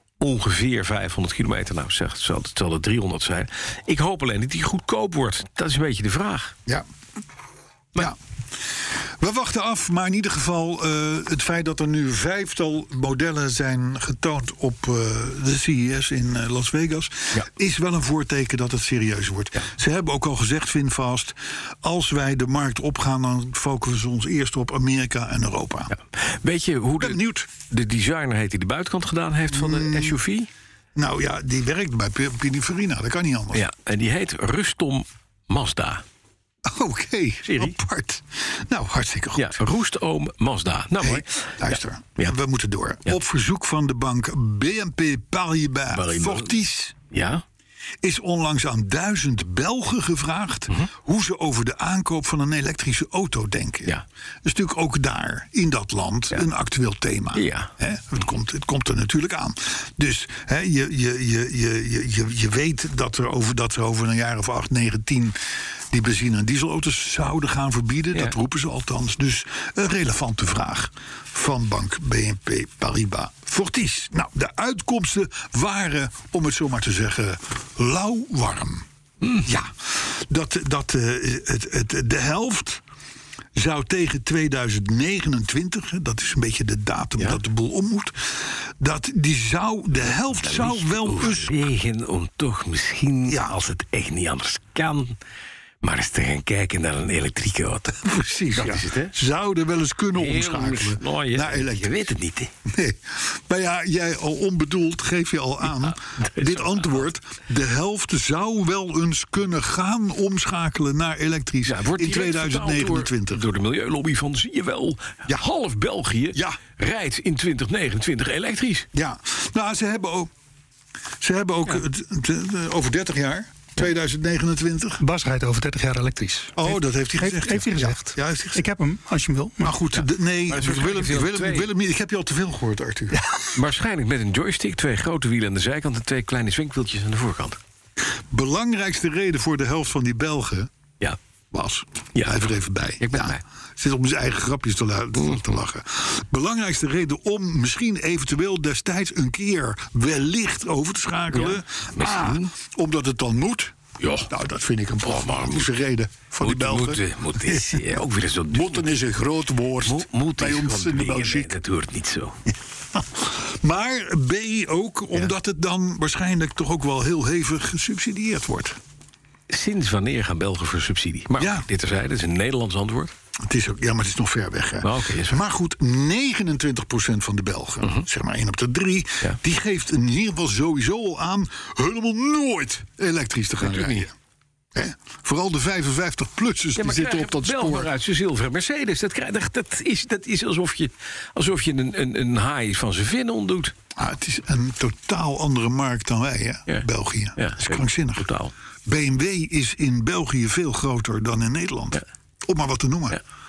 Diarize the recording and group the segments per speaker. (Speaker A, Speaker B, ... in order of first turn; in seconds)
Speaker A: 0.2-6.6, 25.9-30.5, 33.5-36.0, 37.5-37.8, 39.4-42.3, 45.9-46.6, 47.1-47.4, 57.3-57.7, 90.3-95.2, 95.8-99.2, 100.2-102.5, 105.8-107.1, 111.7-118.9, 129.9-131.7, 133.5-137.6, 142.1-143.4, 151.3-152.5, 154.0-154.3, 155.1-155.7, 156.4-159.0, 159.8-162.4, 169.5-173.1, 174.8-175.4, 183.6-184.1, 186.8-193.7, 196.7-198.5
Speaker B: 9.2-25.9, 27.0-27.5, 29.5-30.2, 30.9-33.6, 36.7-39.6, 41.0-47.0, 48.0-65.4, 65.9-78.9, 79.4-82.8, 83.6-91.6, 93.3-93.6, 98.0-102.1, 102.7-113.5, 116.3-116.6, 118.9-120.3, 121.2-125.0, 126.6-128.7, 129.6-133.2, 138.3-140.7, 141.5-153.8, 154.3-157.9, 158.5-161.5, 162.9-168.8, 171.4-171.7, 173.4-184.1, 184.7-187.9, 194.0-198.3, 198.8-203.2
Speaker C: 125.0-129.8